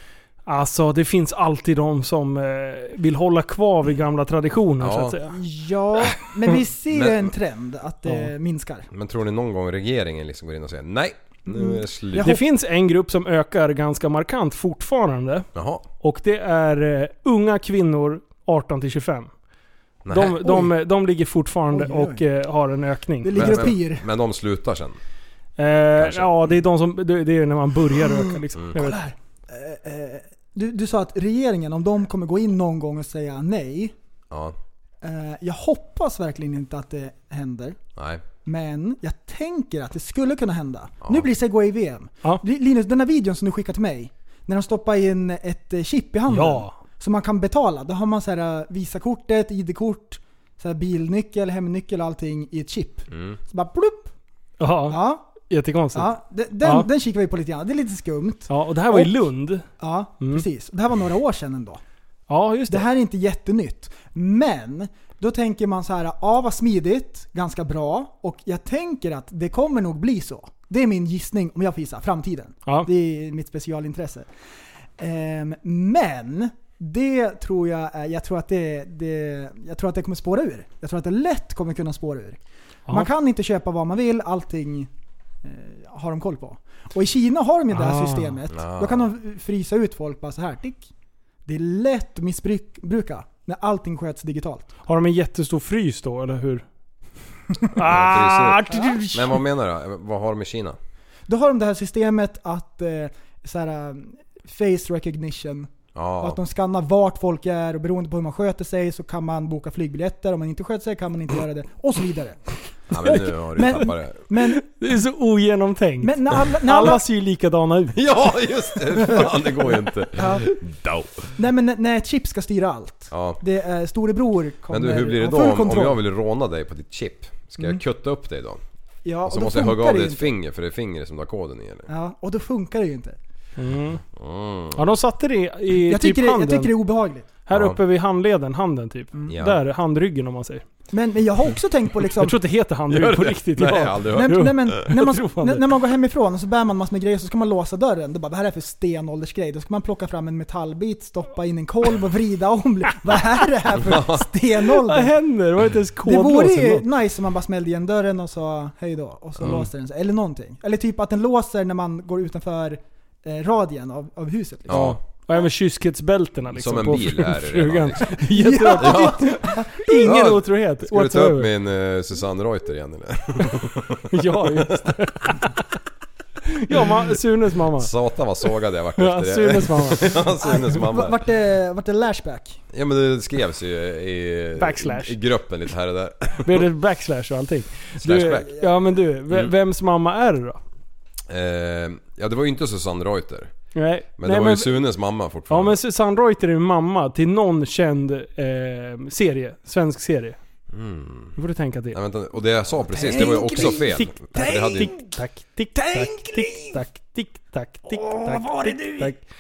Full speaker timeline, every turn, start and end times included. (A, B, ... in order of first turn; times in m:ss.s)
0:00.5-0:05.4 A
0:04.8-0:05.2 B
0:05.2-0:08.9 C
0:06.9-0:07.3 B
0:08.1-0:08.3 A
0:08.9-0:12.4 B
0:11.5-0:12.4 C
0:12.2-0:15.4 A
0:15.5-0:15.8 B
0:16.0-0:19.3 A
0:20.0-0:20.6 B
0:20.1-0:23.7 A
0:20.4-0:20.7 C
0:21.7-0:22.2 C
0:23.2-0:24.1 C
0:23.3-0:25.0 B
0:25.6-0:29.0 A
0:26.0-0:26.4 B
0:28.0-0:33.9 C
0:34.3-0:34.6 B
0:35.0-0:37.8 C
0:38.0-0:38.2 B
0:38.4-0:54.1 C
0:46.3-0:46.7 A
0:53.1-0:53.4 B
0:54.6-0:56.9 A
0:54.9-0:55.3 C
0:55.9-0:59.2 C
0:58.5-0:59.7 A
0:59.7-1:01.8 C
1:00.2-1:00.5 A
1:02.3-1:02.9 A
1:02.7-1:14.3 C
1:15.0-1:22.4 C
1:22.9-1:24.9 C
1:25.4-1:30.9 C
1:27.7-1:28.4 A
1:28.5-1:29.1 B
1:31.5-1:34.7 C
1:34.9-1:36.6 A
1:37.7-1:39.4 A
1:37.8-1:40.8 B
1:38.7-1:39.0 C
1:41.3-1:52.4 C
1:45.9-1:46.4 B
1:52.9-1:54.2 B
1:53.1-1:54.6 C
1:54.4-1:58.0 A
1:56.0-1:57.0 C
1:57.9-2:01.3 B
1:59.0-1:59.4 C
2:00.2-2:00.6 C
2:01.4-2:06.0 C
2:03.1-2:03.4 B
2:04.7-2:08.6 B
2:09.0-2:10.3 C
2:09.3-2:11.9 B
2:11.9-2:13.2 C
2:13.6-2:14.0 A
2:14.1-2:15.0 B
2:14.7-2:16.7 A
2:15.8-2:17.3 C
2:17.5-2:20.6 A
2:17.5-2:17.8 B
2:19.3-2:19.6 B
2:20.9-2:22.4 C
2:22.2-2:25.7 A
2:22.9-2:24.8 B
2:24.1-2:35.2 C
2:33.8-2:34.3 B
2:34.8-2:36.9 A
2:36.0-2:44.9 C
2:39.4-2:39.6 B
2:44.7-2:45.0 B
2:44.7-2:51.5 A
2:46.5-2:54.8 B
2:48.3-2:50.0 C
2:54.1-2:55.6 A
2:56.5-2:57.9 A
2:57.8-3:01.2 B
2:59.0-3:00.2 A
3:00.4-3:02.6 C
3:02.7-3:06.7 B
3:04.6-3:05.2 A
3:06.4-3:10.6 A
3:08.0-3:08.6 B
3:11.3-3:13.5 B
3:13.8-3:14.8 A
3:14.2-3:15.8 B
3:15.5-3:20.4 A
3:20.7-3:21.4 B
3:21.4-3:22.0 A
3:21.9-3:24.9 B
3:22.9-3:25.1 C
3:23.1-3:29.2 A
3:25.8-3:26.8 C
3:27.9-3:29.1 C